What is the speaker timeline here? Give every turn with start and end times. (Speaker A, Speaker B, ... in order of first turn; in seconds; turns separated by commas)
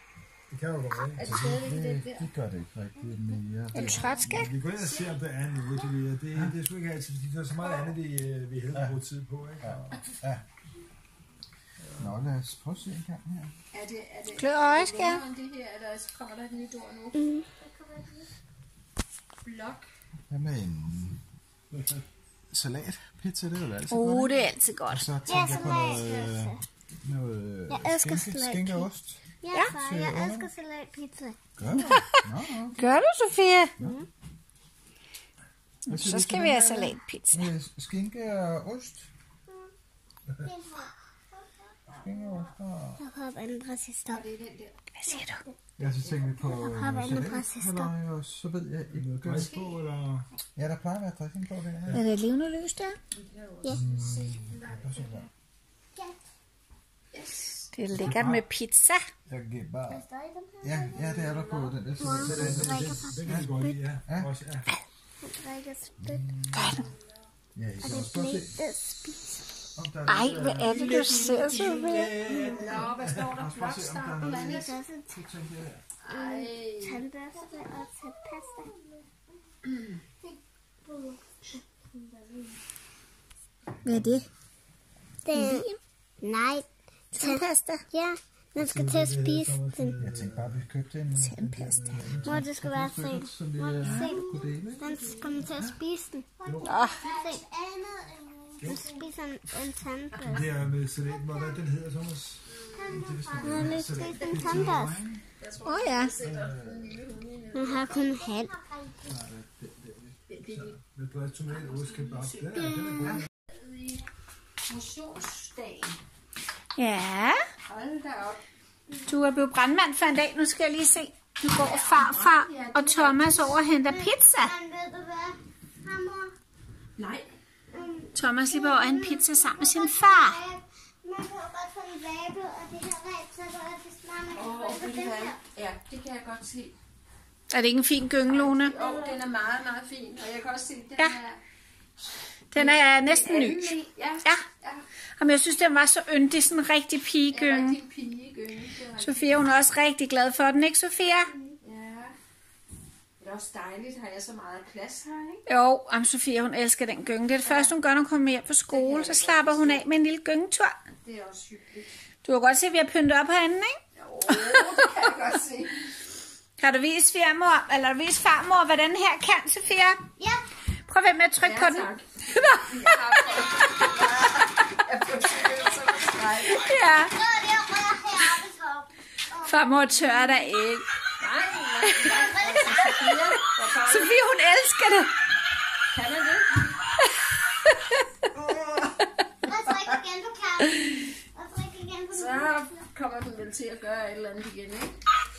Speaker A: 0.5-1.3, Speaker B: 1.1-2.3, Speaker C: 1.2-4.3, Speaker D: 3.7-4.5, Speaker B: 3.9-5.8, Speaker A: 4.2-10.0, Speaker C: 9.6-10.4, Speaker A: 11.8-12.2, Speaker C: 12.0-13.5, Speaker B: 13.7-17.4, Speaker D: 14.4-15.2, Speaker E: 17.1-18.3, Speaker B: 19.4-19.9, Speaker C: 20.3-21.2, Speaker A: 21.7-22.0, Speaker C: 22.5-30.5, Speaker D: 23.9-25.1, Speaker E: 25.2-26.6, Speaker E: 27.7-28.9, Speaker E: 29.4-31.4, Speaker C: 31.6-32.9, Speaker D: 31.9-32.2, Speaker D: 32.7-33.7, Speaker E: 33.8-34.1, Speaker D: 35.9-37.5, Speaker C: 35.9-39.1, Speaker E: 40.4-41.4, Speaker C: 41.9-43.0, Speaker E: 43.0-44.3, Speaker B: 44.1-44.8, Speaker D: 45.0-45.4, Speaker E: 45.1-45.5, Speaker C: 45.8-49.5, Speaker B: 45.8-46.5, Speaker E: 46.4-47.9, Speaker A: 48.9-50.3, Speaker B: 49.4-49.8, Speaker C: 50.5-52.0, Speaker D: 51.9-53.0, Speaker B: 53.1-55.2, Speaker C: 53.7-55.3, Speaker B: 57.1-57.7, Speaker D: 57.7-59.0, Speaker C: 57.9-58.4, Speaker A: 58.1-58.4, Speaker C: 59.3-60.0, Speaker E: 59.9-61.3, Speaker C: 60.6-63.5, Speaker B: 61.1-62.1, Speaker E: 62.0-63.8, Speaker A: 62.1-64.7, Speaker E: 65.2-66.3, Speaker C: 66.0-66.9, Speaker D: 66.6-66.9, Speaker C: 67.5-68.6, Speaker E: 67.8-69.5, Speaker C: 69.8-75.8, Speaker D: 70.1-72.2, Speaker B: 70.9-71.3, Speaker B: 72.1-74.8, Speaker E: 72.3-72.7, Speaker E: 74.2-75.2, Speaker B: 76.0-77.1, Speaker E: 76.1-78.7, Speaker E: 80.9-81.2, Speaker D: 83.8-84.3, Speaker E: 85.2-85.7, Speaker D: 85.3-85.7, Speaker E: 86.2-90.0, Speaker D: 87.2-87.8, Speaker A: 88.6-90.6, Speaker C: 90.0-95.8, Speaker D: 91.2-92.0, Speaker A: 91.7-92.4, Speaker E: 92.2-100.5, Speaker B: 93.9-94.4, Speaker B: 95.0-95.3, Speaker A: 96.5-96.8, Speaker D: 96.6-97.1, Speaker B: 96.9-97.4, Speaker A: 98.6-98.9, Speaker B: 100.1-100.5, Speaker A: 100.3-104.2, Speaker E: 101.2-101.6, Speaker B: 102.5-103.0, Speaker E: 102.7-105.0, Speaker C: 103.0-105.2, Speaker B: 103.6-108.5, Speaker D: 105.7-106.2, Speaker C: 106.2-106.9, Speaker E: 107.5-109.2, Speaker C: 109.1-110.1, Speaker B: 110.3-110.8, Speaker A: 110.5-113.3, Speaker B: 111.5-112.5, Speaker E: 112.5-113.2, Speaker B: 113.5-114.1, Speaker B: 114.6-116.0, Speaker D: 116.8-117.4, Speaker B: 117.7-118.4, Speaker D: 119.1-124.5, Speaker B: 121.5-123.5, Speaker E: 123.5-126.3, Speaker B: 127.0-127.3, Speaker E: 127.7-135.4, Speaker D: 128.2-130.4, Speaker B: 134.3-136.8, Speaker D: 137.5-138.8, Speaker B: 138.3-141.4, Speaker E: 138.8-139.2, Speaker D: 142.5-144.4, Speaker B: 142.5-144.8, Speaker D: 145.2-147.8, Speaker B: 147.3-149.4, Speaker D: 149.0-151.3, Speaker E: 151.3-151.6, Speaker B: 151.6-152.2, Speaker B: 153.2-155.4, Speaker D: 155.5-160.8, Speaker B: 157.4-157.8, Speaker B: 158.7-159.9, Speaker B: 161.0-161.9, Speaker D: 162.2-163.8, Speaker B: 163.9-165.9, Speaker D: 164.3-164.9, Speaker D: 166.6-170.1, Speaker E: 170.2-170.4, Speaker D: 170.9-173.4, Speaker B: 171.4-176.9, Speaker D: 176.5-177.2, Speaker E: 177.0-180.3, Speaker D: 179.4-180.9, Speaker B: 181.2-184.2, Speaker E: 182.0-182.9, Speaker D: 182.9-185.1, Speaker B: 185.9-186.7, Speaker D: 187.0-188.0, Speaker B: 188.3-189.0, Speaker E: 189.4-192.7, Speaker B: 192.1-195.0